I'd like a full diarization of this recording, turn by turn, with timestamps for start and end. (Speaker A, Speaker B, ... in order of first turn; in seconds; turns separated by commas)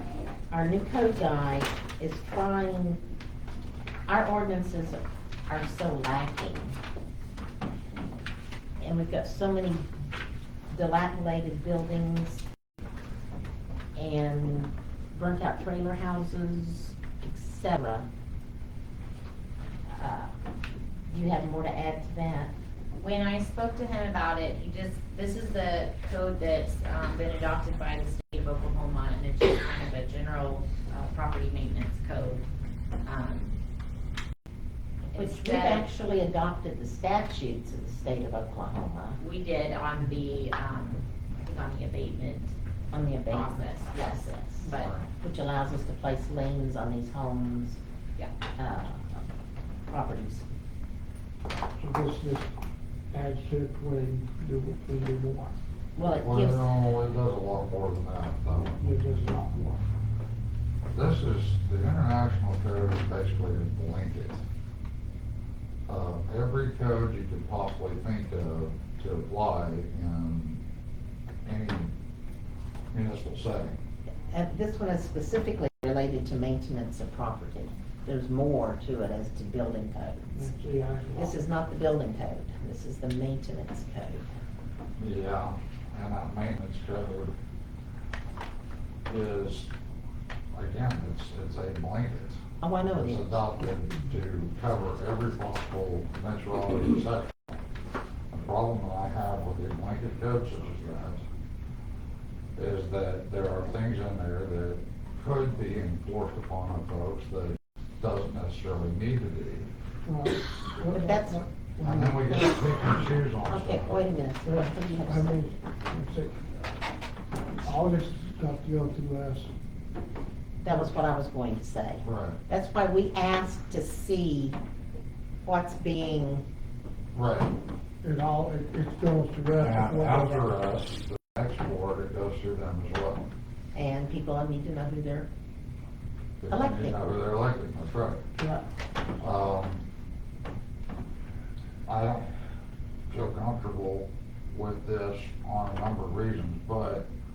Speaker A: 0.5-3.0, Speaker A: 4.1-6.8, Speaker A: 8.8-9.9, Speaker A: 10.7-12.4, Speaker A: 13.9-18.1, Speaker A: 19.9-20.3, Speaker A: 21.1-22.5, Speaker B: 23.0-32.4, Speaker B: 33.0-33.6, Speaker B: 35.1-35.9, Speaker A: 35.1-39.2, Speaker B: 39.2-42.5, Speaker A: 42.9-47.8, Speaker B: 43.3-45.0, Speaker C: 44.7-45.0, Speaker A: 48.6-49.2, Speaker A: 49.9-50.5, Speaker D: 51.8-52.5, Speaker D: 53.1-55.5, Speaker A: 56.0-56.7, Speaker C: 56.0-58.8, Speaker D: 58.8-59.8, Speaker C: 60.9-64.4, Speaker C: 65.9-70.6, Speaker C: 71.4-71.9, Speaker C: 72.9-73.8, Speaker A: 74.3-80.5, Speaker D: 80.3-81.4, Speaker A: 81.1-84.3, Speaker C: 85.0-87.3, Speaker C: 89.0-89.7, Speaker C: 90.5-92.4, Speaker A: 92.6-93.4, Speaker C: 92.9-97.5, Speaker C: 98.3-101.2, Speaker C: 102.5-109.7, Speaker D: 110.0-112.9, Speaker A: 110.9-111.4, Speaker C: 111.8-114.0, Speaker A: 113.5-115.4, Speaker D: 114.4-116.4, Speaker D: 117.6-119.5, Speaker A: 120.6-124.6, Speaker C: 122.0-122.4, Speaker A: 125.5-126.4, Speaker C: 127.1-127.5, Speaker D: 128.0-130.5, Speaker C: 129.6-133.2, Speaker A: 133.7-135.3, Speaker C: 136.4-138.2, Speaker A: 136.5-137.0, Speaker D: 138.4-138.6, Speaker C: 139.2-139.8, Speaker C: 141.8-142.3, Speaker C: 143.1-147.1